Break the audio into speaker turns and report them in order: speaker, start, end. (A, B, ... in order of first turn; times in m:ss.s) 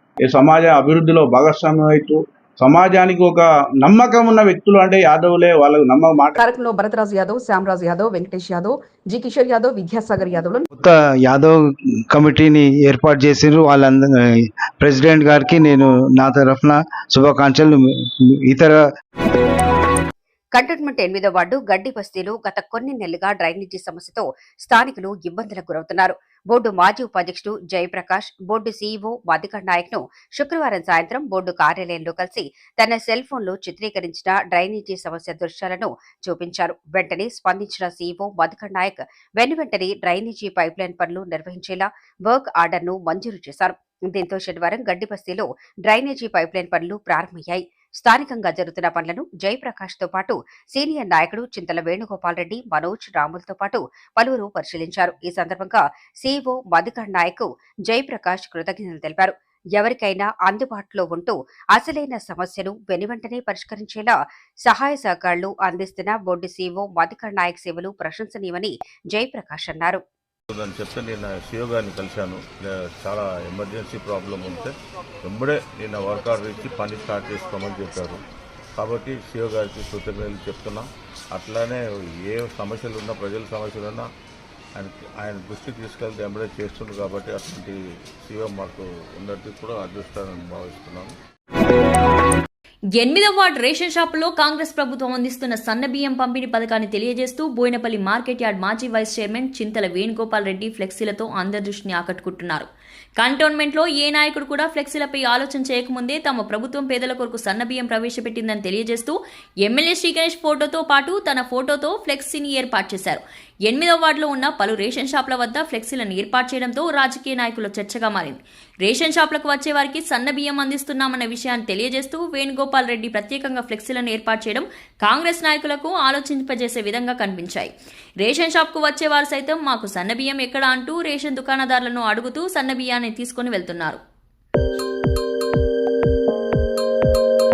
0:00.2-0:06.4 A
0:06.4-0:10.7 B
0:10.7-0:18.8 C
0:20.5-1:10.0 D
1:10.5-1:18.2 E
1:18.8-1:24.1 E
1:24.8-1:31.1 E
1:33.0-2:14.0 F